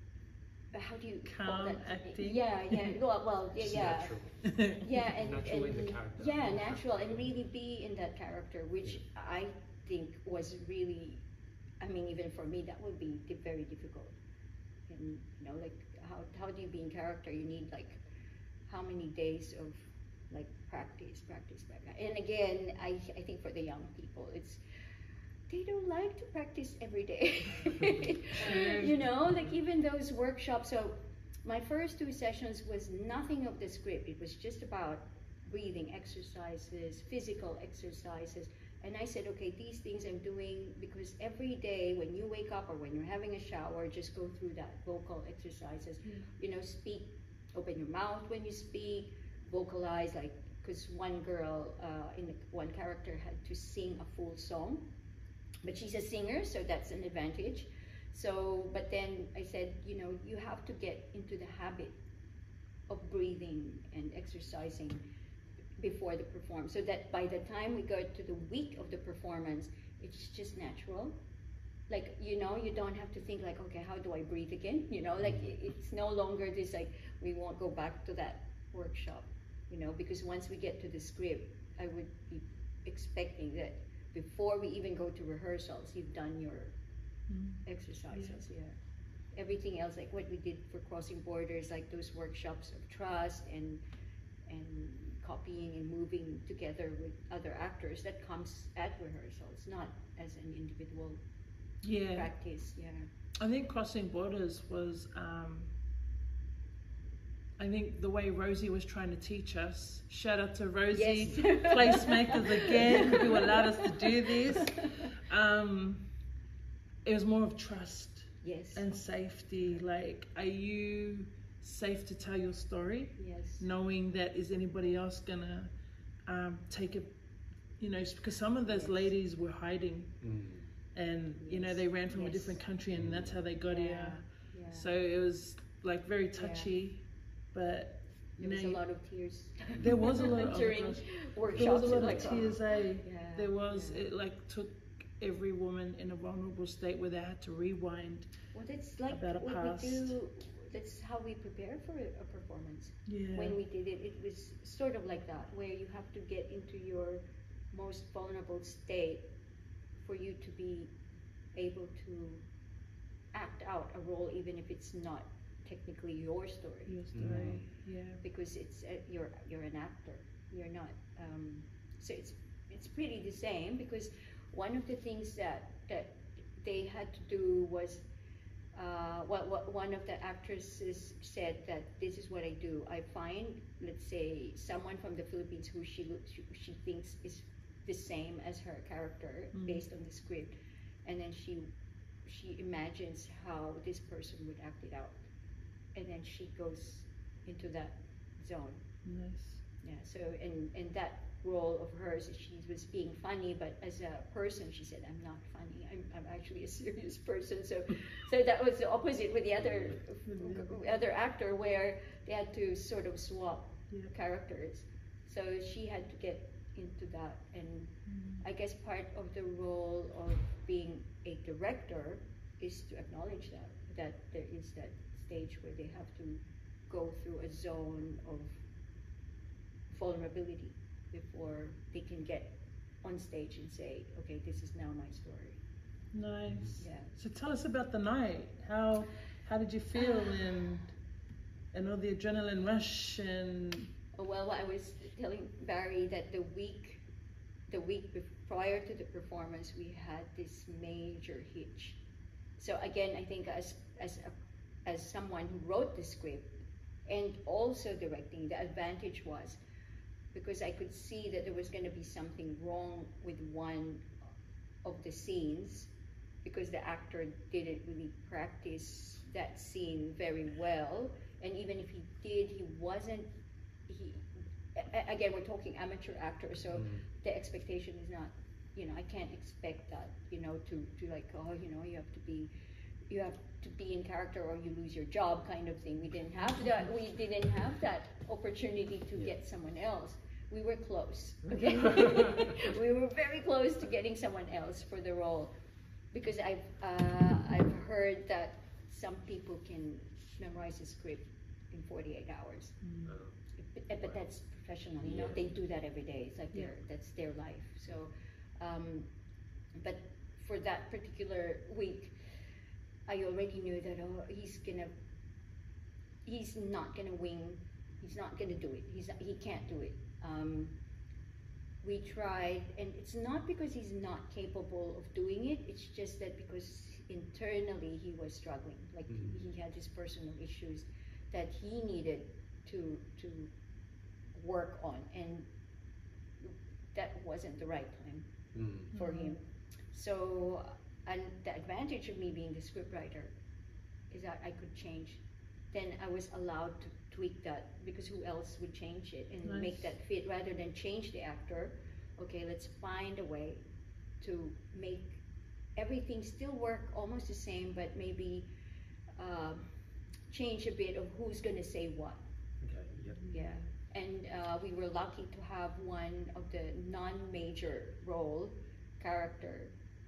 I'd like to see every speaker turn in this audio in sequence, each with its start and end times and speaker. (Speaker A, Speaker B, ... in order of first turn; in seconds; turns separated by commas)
Speaker A: 0.7-4.2, Speaker B: 1.2-3.0, Speaker C: 3.6-4.4, Speaker B: 4.5-4.9, Speaker A: 4.8-11.2, Speaker C: 5.0-7.3, Speaker A: 11.8-14.2, Speaker A: 14.9-18.0, Speaker A: 18.7-24.6, Speaker A: 25.5-54.9, Speaker B: 28.4-28.9, Speaker A: 55.6-62.0, Speaker A: 62.9-65.0, Speaker A: 65.8-71.2, Speaker A: 71.9-86.8, Speaker C: 75.2-75.5, Speaker B: 87.3-88.4, Speaker A: 87.7-88.8, Speaker A: 89.3-93.8, Speaker A: 94.5-101.2, Speaker B: 101.8-102.3, Speaker A: 102.1-103.1, Speaker B: 103.4-105.7, Speaker B: 107.6-116.1, Speaker A: 110.9-115.0, Speaker B: 117.0-125.7, Speaker A: 118.4-118.9, Speaker A: 123.2-123.7, Speaker B: 126.3-127.1, Speaker B: 127.8-130.2, Speaker A: 128.7-129.0, Speaker C: 130.2-130.7, Speaker B: 130.9-137.0, Speaker A: 131.4-132.6, Speaker C: 133.0-133.4, Speaker A: 133.7-134.9, Speaker A: 136.4-136.7, Speaker B: 137.5-138.8, Speaker A: 138.4-144.1, Speaker C: 139.7-140.0, Speaker B: 139.8-148.3, Speaker C: 141.5-142.6, Speaker A: 148.5-159.3, Speaker B: 149.1-150.2, Speaker B: 153.1-153.6, Speaker A: 160.0-160.9, Speaker A: 161.5-162.4, Speaker A: 163.3-167.6, Speaker B: 166.9-168.2, Speaker C: 167.1-167.7, Speaker A: 168.2-178.1, Speaker A: 178.7-191.7, Speaker B: 189.5-189.8, Speaker A: 192.2-195.2, Speaker A: 195.9-198.8, Speaker B: 199.1-199.6, Speaker A: 199.8-228.6, Speaker B: 210.3-210.8, Speaker B: 218.1-218.4, Speaker A: 229.9-235.6, Speaker B: 236.1-240.9, Speaker C: 236.5-236.8, Speaker A: 236.8-237.1, Speaker B: 241.7-243.9, Speaker A: 244.2-247.0, Speaker A: 247.7-252.0, Speaker A: 252.6-256.5, Speaker A: 257.1-259.6, Speaker A: 260.3-264.1, Speaker A: 264.8-265.9, Speaker A: 266.4-273.3, Speaker A: 273.9-282.5, Speaker C: 276.7-277.1, Speaker A: 283.1-295.5, Speaker A: 296.1-302.8, Speaker B: 302.8-303.2, Speaker C: 303.1-303.4, Speaker A: 303.6-309.1, Speaker C: 305.0-305.4, Speaker A: 309.8-312.2, Speaker A: 313.1-314.9, Speaker A: 316.2-320.8, Speaker A: 321.8-333.5, Speaker C: 329.1-329.4, Speaker A: 334.3-335.5, Speaker A: 336.4-338.3, Speaker C: 338.5-338.9, Speaker A: 338.9-343.3, Speaker B: 338.9-339.3, Speaker A: 344.1-353.6, Speaker B: 349.4-349.9, Speaker A: 354.2-355.2, Speaker A: 355.8-358.5, Speaker A: 359.2-359.6, Speaker A: 360.3-362.2, Speaker C: 362.6-363.2, Speaker A: 363.3-369.7